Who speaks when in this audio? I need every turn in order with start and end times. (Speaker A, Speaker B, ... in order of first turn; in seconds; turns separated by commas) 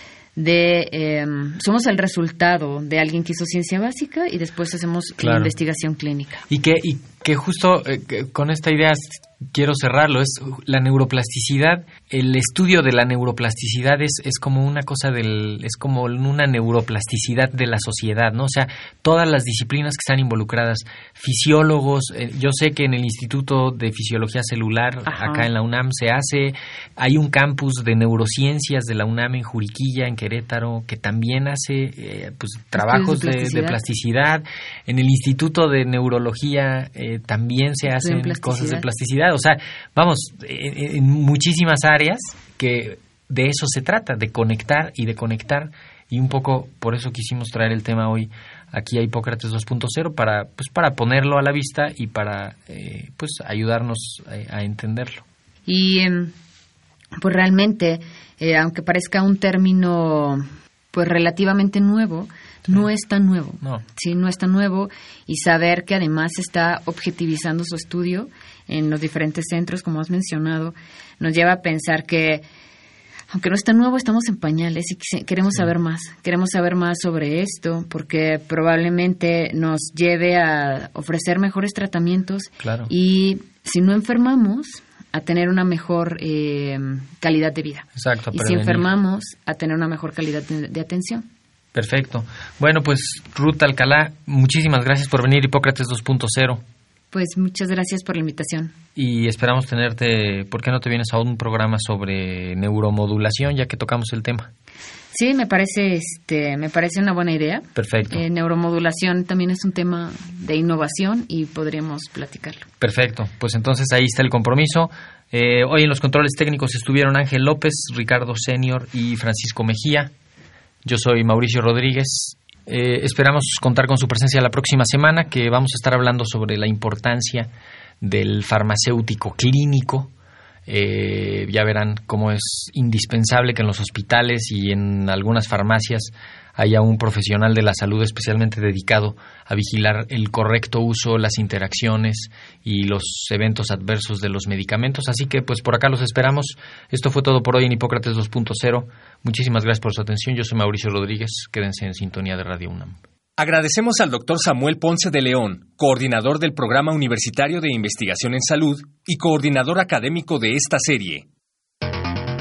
Speaker A: 0.4-6.4, Speaker B: 5.2-5.5, Speaker B: 6.5-55.2, Speaker A: 25.1-25.5, Speaker A: 32.8-33.8, Speaker A: 37.9-38.9, Speaker A: 55.7-56.3, Speaker A: 57.2-72.4, Speaker A: 73.3-91.2, Speaker B: 82.6-82.9, Speaker B: 88.0-88.9, Speaker B: 91.7-96.6, Speaker A: 97.1-98.7, Speaker B: 99.0-104.5, Speaker A: 105.1-112.7, Speaker B: 107.8-108.2, Speaker B: 112.8-120.1, Speaker B: 120.8-127.5, Speaker B: 128.0-130.1, Speaker B: 130.7-153.0, Speaker C: 153.4-161.3